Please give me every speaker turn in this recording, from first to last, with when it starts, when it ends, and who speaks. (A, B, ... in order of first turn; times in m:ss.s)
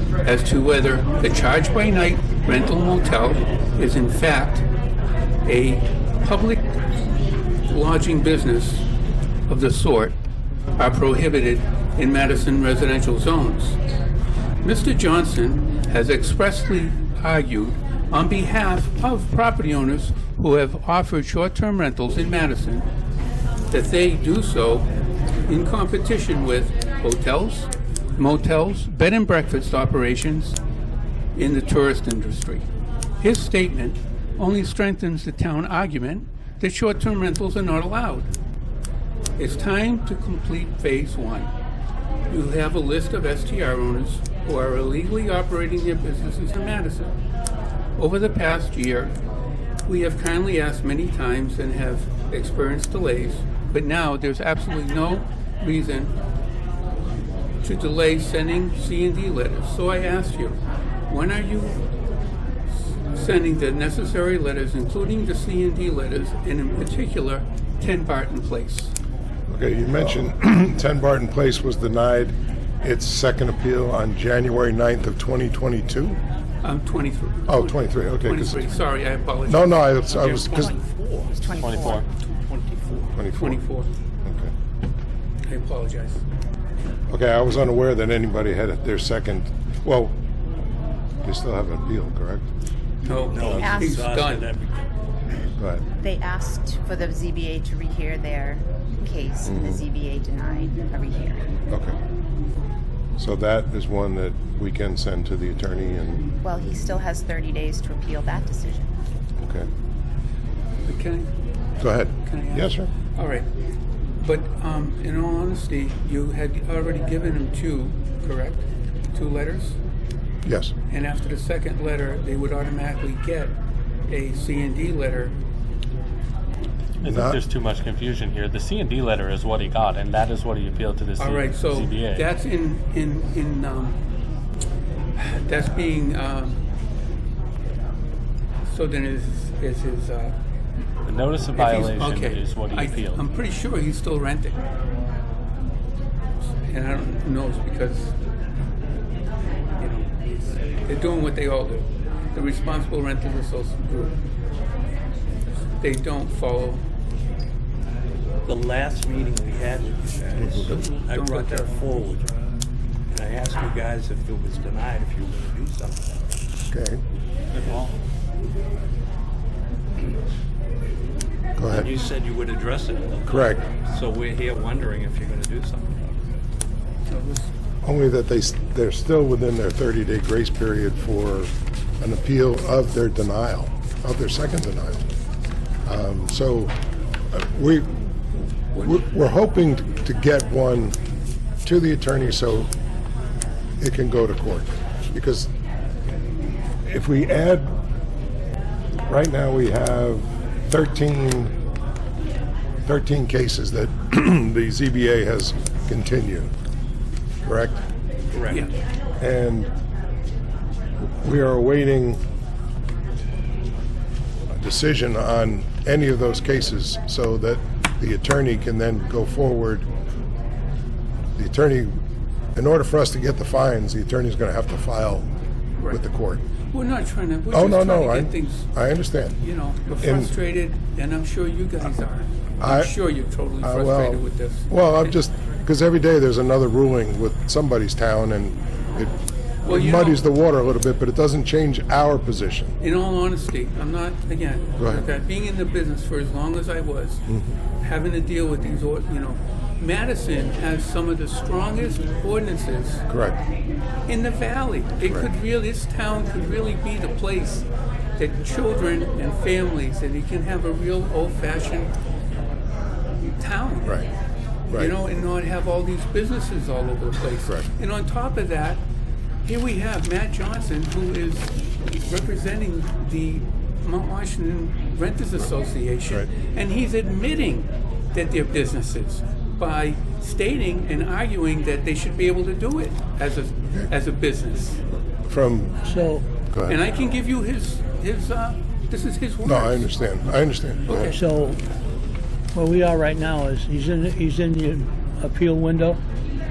0:00.2-0:04.6 A
0:05.4-0:06.6 A
0:07.7-0:08.8 A
0:09.5-0:10.1 A
0:10.8-0:13.8 A
0:14.6-0:22.9 A
0:23.7-0:24.8 A
0:25.5-0:30.6 A
0:31.4-0:32.6 A
0:33.2-0:38.3 A
0:39.4-0:41.5 A
0:42.3-0:47.1 A
0:48.0-0:49.1 A
0:49.8-0:56.1 A
0:57.6-1:01.8 A
1:03.1-1:08.9 A
1:09.5-1:16.2 B
1:16.6-1:20.7 A
1:17.5-1:18.8 B
1:19.4-1:20.7 B
1:21.4-1:22.0 C
1:21.5-1:22.1 D
1:23.2-1:23.6 B
1:23.4-1:23.9 A
1:24.2-1:24.5 B
1:25.4-1:26.2 A
1:27.1-1:30.1 B
1:31.2-1:32.4 B
1:33.0-1:34.5 A
1:33.3-1:34.8 E
1:33.6-1:34.0 C
1:35.6-1:35.8 B
1:36.0-1:41.5 C
1:39.4-1:39.8 B
1:43.2-1:46.2 B
1:46.4-1:48.9 C
1:49.4-1:49.7 B
1:50.8-1:51.3 A
1:51.8-1:52.9 B
1:52.2-1:53.5 A
1:54.2-1:59.8 A
2:00.4-2:00.7 B
2:00.9-2:03.6 A
2:04.1-2:05.3 A
2:07.0-2:12.2 D
2:07.0-2:07.4 B
2:11.2-2:14.0 A
2:15.2-2:16.6 A
2:18.7-2:20.4 A
2:21.0-2:23.2 D
2:21.6-2:24.6 A
2:26.6-2:28.1 A
2:29.8-2:30.3 A
2:30.8-2:34.2 A
2:35.8-2:36.8 A
2:38.4-2:42.3 E
2:40.6-2:42.0 A
2:43.1-2:46.3 E
2:46.7-2:47.0 B
2:47.5-2:47.9 E
2:51.6-2:51.9 B
2:51.7-2:56.2 E
2:53.3-2:53.6 B
2:57.1-2:57.5 A
2:57.8-3:05.0 B
3:05.8-3:06.7 B
3:07.3-3:07.9 B
3:08.7-3:11.0 B
3:11.6-3:12.7 B
3:13.8-3:15.5 B
3:16.8-3:17.7 B
3:19.1-3:21.5 B
3:22.8-3:26.5 B
3:27.4-3:27.8 B
3:28.3-3:28.7 E
3:29.2-3:29.7 B
3:31.0-3:32.2 B
3:34.5-3:39.9 B
3:41.4-3:42.0 B
3:42.6-3:45.3 B
3:45.9-3:46.4 B
3:46.7-3:48.7 A
3:47.5-3:49.4 B
3:49.4-3:55.1 A
3:50.0-3:50.3 B
3:52.6-3:52.9 B
3:53.6-3:59.1 B
3:59.6-4:00.2 A
3:59.6-4:02.7 B
4:02.8-4:07.2 A
4:04.8-4:05.1 B
4:07.8-4:13.0 A
4:13.1-4:13.4 B
4:14.1-4:17.7 A
4:15.0-4:15.3 B
4:18.2-4:21.9 A
4:23.4-4:24.0 A
4:24.7-4:25.0 B
4:24.7-4:28.8 A
4:29.4-4:44.8 A
4:45.3-4:45.8 B
4:45.8-4:46.2 F
4:46.5-4:46.8 B
4:46.7-4:49.9 A
4:49.4-4:51.1 B
4:50.9-4:51.2 A
4:51.0-4:51.6 F
4:52.5-4:56.0 F